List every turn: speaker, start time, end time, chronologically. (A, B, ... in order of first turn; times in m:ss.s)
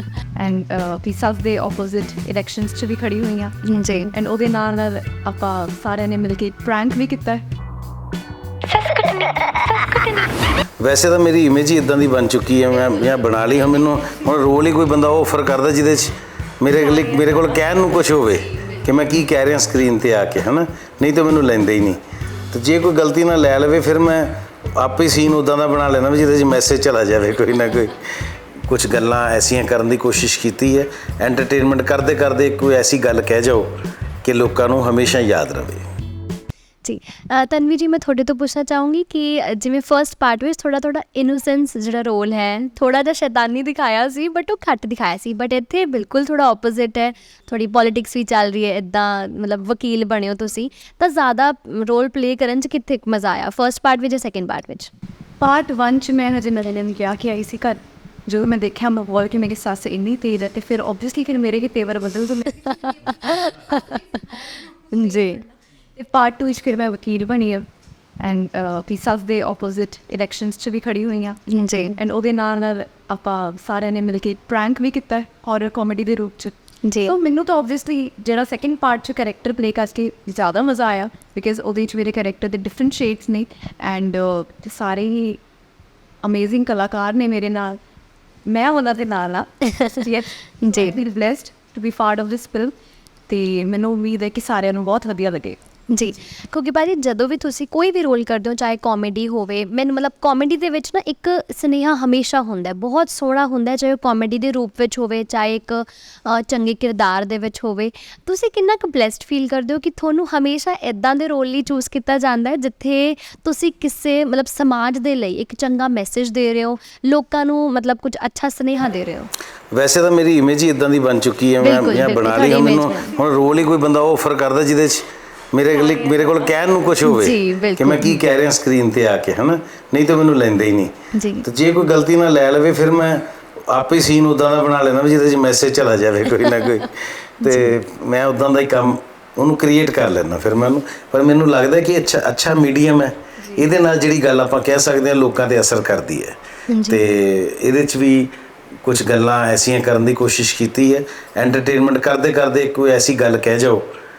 0:00.4-0:07.4 A
0:03.6-0:04.1 B
0:09.6-0:10.3 B
0:10.8-0:28.0 C
0:28.7-0:35.8 C
0:36.8-0:54.9 B
0:55.4-1:03.4 A
1:03.1-1:04.4 B
1:04.8-1:05.4 A
1:05.0-1:05.3 B
1:06.0-1:07.6 A
1:08.2-1:25.4 A
1:11.5-1:12.0 B
1:16.8-1:17.2 B
1:26.2-1:27.8 A
1:28.5-1:32.7 A
1:30.6-1:31.0 B
1:33.3-1:35.6 A
1:35.9-1:59.3 B
1:59.7-2:28.3 C
2:01.6-2:03.2 B
2:07.0-2:08.2 B
2:11.1-2:11.5 B
2:17.4-2:17.8 B
2:26.7-2:27.0 B
2:28.8-2:33.8 C